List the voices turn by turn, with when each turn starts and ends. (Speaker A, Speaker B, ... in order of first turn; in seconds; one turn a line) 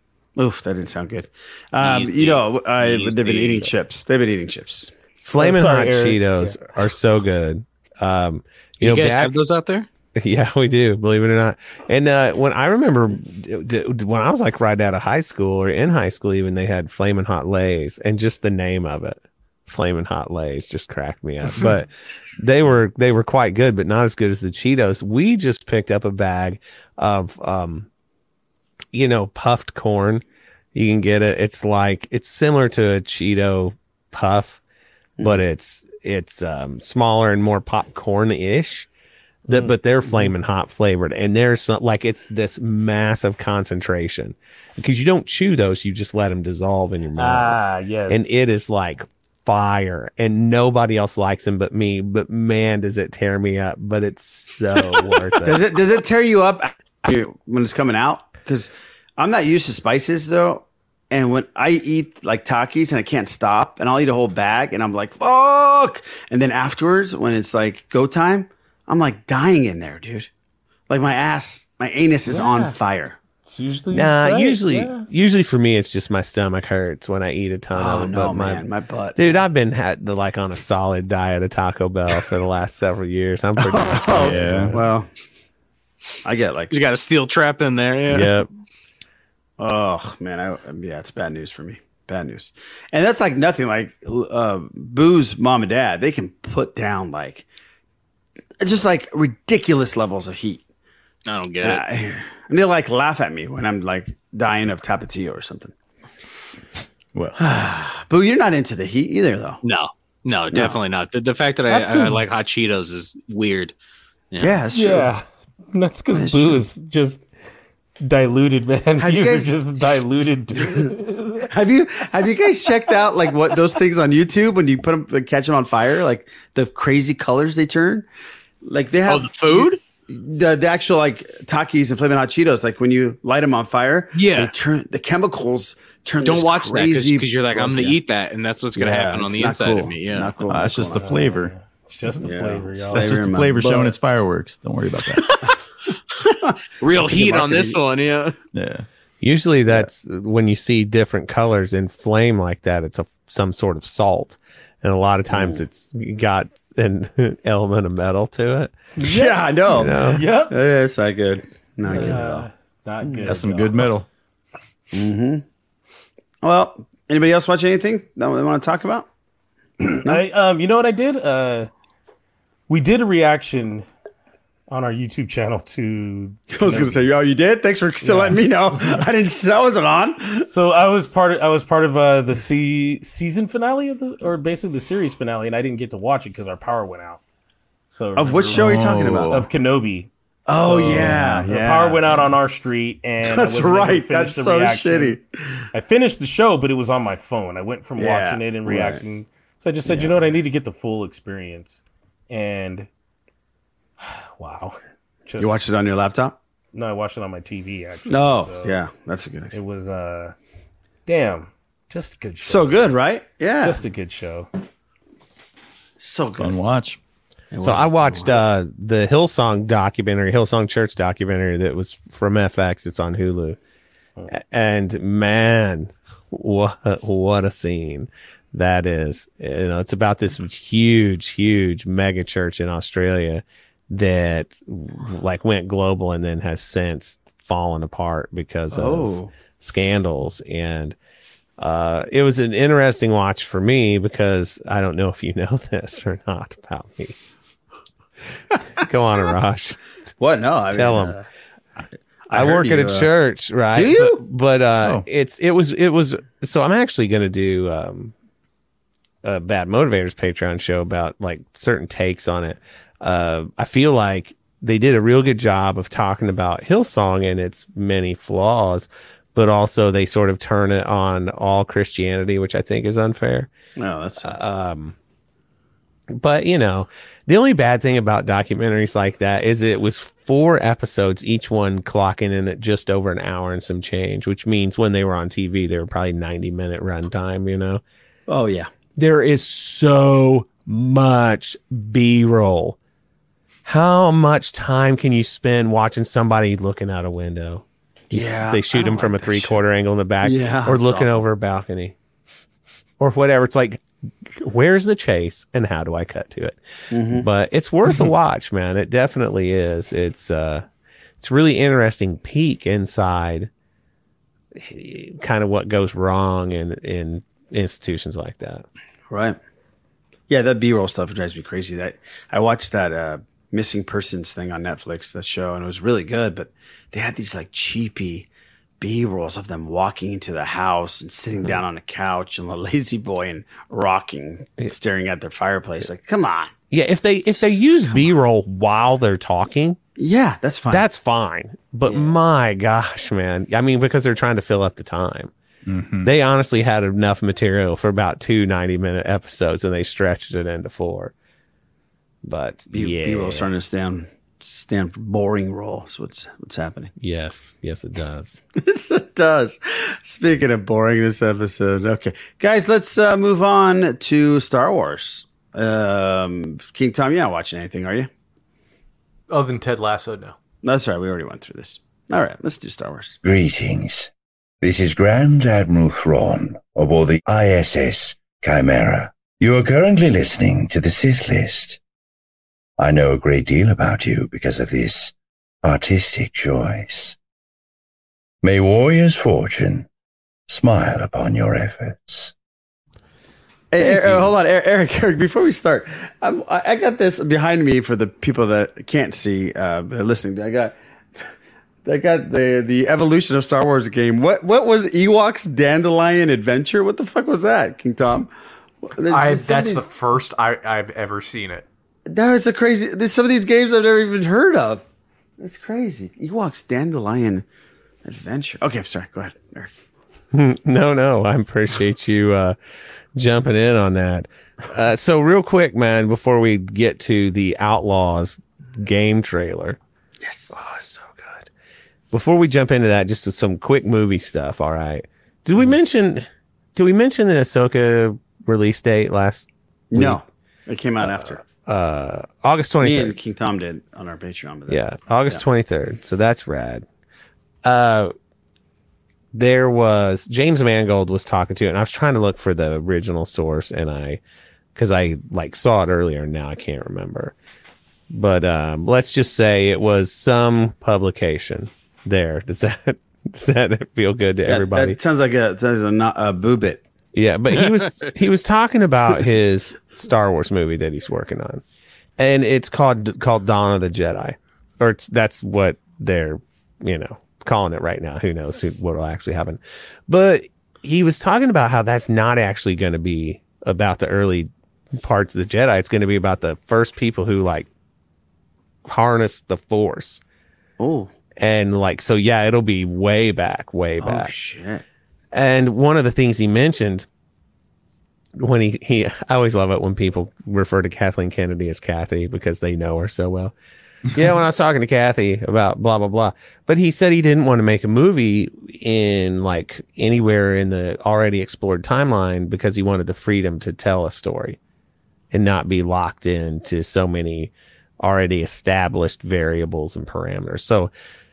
Speaker A: 0.4-4.9
Speaker B: 1.8-3.7
Speaker C: 5.2-9.4
Speaker D: 5.3-6.6
Speaker B: 8.8-9.9
Speaker C: 10.2-27.9
Speaker C: 28.9-30.2
Speaker C: 30.7-34.6
Speaker C: 35.2-38.9
Speaker C: 39.5-55.6
Speaker D: 39.5-39.8
Speaker D: 47.2-48.3
Speaker A: 55.4-70.3
Speaker A: 70.9-73.2
Speaker D: 72.3-72.8
Speaker D: 73.5-75.0
Speaker C: 73.9-84.8
Speaker A: 77.7-79.4
Speaker A: 83.6-85.1
Speaker E: 84.2-84.8
Speaker A: 86.2-86.8
Speaker B: 86.7-88.3
Speaker C: 88.1-88.5
Speaker A: 89.6-97.5
Speaker A: 98.6-100.6
Speaker B: 101.3-101.8
Speaker A: 101.6-105.7
Speaker E: 107.1-107.4
Speaker A: 107.4-109.6
Speaker B: 109.6-113.7
Speaker D: 111.7-112.2
Speaker B: 114.3-114.6
Speaker A: 114.4-115.1
Speaker D: 114.7-117.2
Speaker A: 116.1-116.6
Speaker D: 118.0-121.5
Speaker A: 119.0-119.5
Speaker A: 120.6-120.9
Speaker A: 121.5-128.1
Speaker A: 128.6-138.0
Speaker B: 129.1-129.8
Speaker B: 134.2-134.5
Speaker B: 136.2-140.4
Speaker A: 138.8-141.2
Speaker E: 140.5-141.5
Speaker D: 140.9-143.1
Speaker A: 142.2-143.9
Speaker E: 142.9-145.4
Speaker A: 146.3-147.8
Speaker B: 146.8-148.4
Speaker E: 148.5-148.9
Speaker C: 149.2-158.8
Speaker A: 155.3-155.6
Speaker D: 159.0-159.4
Speaker A: 159.0-162.5
Speaker C: 159.7-160.3
Speaker D: 159.9-160.6
Speaker D: 161.9-163.9
Speaker A: 163.0-163.4
Speaker E: 163.2-164.1
Speaker A: 164.9-165.4
Speaker A: 166.4-169.1
Speaker D: 169.8-171.7
Speaker D: 172.7-173.9
Speaker D: 174.7-177.1
Speaker A: 176.5-180.5
Speaker D: 178.0-178.4
Speaker D: 180.5-187.2
Speaker D: 187.9-190.1
Speaker A: 188.2-189.4
Speaker E: 188.5-189.3
Speaker A: 190.5-192.3
Speaker D: 190.6-195.2
Speaker E: 190.9-191.4
Speaker A: 193.2-195.6
Speaker D: 195.7-202.9
Speaker A: 198.0-199.0
Speaker A: 199.8-200.3
Speaker D: 204.0-205.6
Speaker A: 205.4-206.4
Speaker D: 206.7-208.8
Speaker A: 208.1-209.5
Speaker D: 209.5-210.3
Speaker D: 211.1-212.8
Speaker A: 212.4-213.8
Speaker D: 213.6-214.5
Speaker A: 216.0-216.6
Speaker E: 216.4-217.0
Speaker A: 217.5-218.4
Speaker C: 217.6-223.6
Speaker C: 224.3-241.0
Speaker A: 238.7-239.3
Speaker C: 241.6-247.2
Speaker C: 248.8-249.8
Speaker A: 250.2-251.2
Speaker C: 250.6-251.2
Speaker A: 252.3-253.1
Speaker C: 252.3-258.1
Speaker A: 253.7-254.2
Speaker E: 254.8-255.1
Speaker C: 259.2-273.5
Speaker A: 273.8-274.4
Speaker C: 274.2-275.0
Speaker C: 276.1-287.8
Speaker A: 288.3-288.7
Speaker C: 289.0-292.8
Speaker C: 293.6-302.0
Speaker A: 298.1-299.6
Speaker A: 300.2-301.2
Speaker C: 303.0-306.6
Speaker A: 306.9-307.3
Speaker C: 307.1-310.7
Speaker C: 311.2-313.5
Speaker C: 314.5-318.6
Speaker A: 319.1-319.4
Speaker A: 320.3-328.3
Speaker A: 328.8-336.5
Speaker C: 336.7-339.8
Speaker A: 337.4-338.1
Speaker A: 340.0-340.9
Speaker C: 340.7-345.3
Speaker A: 341.9-342.2
Speaker E: 345.7-346.1
Speaker C: 346.0-351.1
Speaker C: 352.2-353.5
Speaker A: 352.7-356.9
Speaker C: 357.0-358.4
Speaker A: 358.6-368.1
Speaker F: 369.3-370.4
Speaker A: 370.6-373.2
Speaker G: 373.2-374.1
Speaker G: 374.6-381.8
Speaker G: 382.8-387.2
Speaker G: 388.4-389.9
Speaker G: 390.5-392.3
Speaker A: 393.7-400.8
Speaker A: 401.9-408.3
Speaker A: 408.9-409.8
Speaker F: 409.1-411.7
Speaker A: 412.1-414.8
Speaker A: 415.4-417.4
Speaker A: 418.1-419.8
Speaker C: 420.3-422.6
Speaker C: 423.1-429.8
Speaker A: 430.2-430.5
Speaker C: 430.5-431.5
Speaker C: 432.1-440.2
Speaker A: 439.9-441.4
Speaker C: 441.0-443.1
Speaker A: 442.8-445.4
Speaker C: 444.7-446.9
Speaker C: 447.6-448.1
Speaker C: 449.3-454.2
Speaker C: 454.8-457.4
Speaker C: 458.1-465.0
Speaker A: 464.5-466.8
Speaker C: 467.1-471.6
Speaker C: 472.2-487.7
Speaker C: 488.9-490.2
Speaker A: 490.8-491.1
Speaker C: 491.4-494.3
Speaker A: 494.0-494.9
Speaker C: 495.3-497.1
Speaker C: 498.4-503.6
Speaker C: 504.1-514.6
Speaker C: 515.3-520.9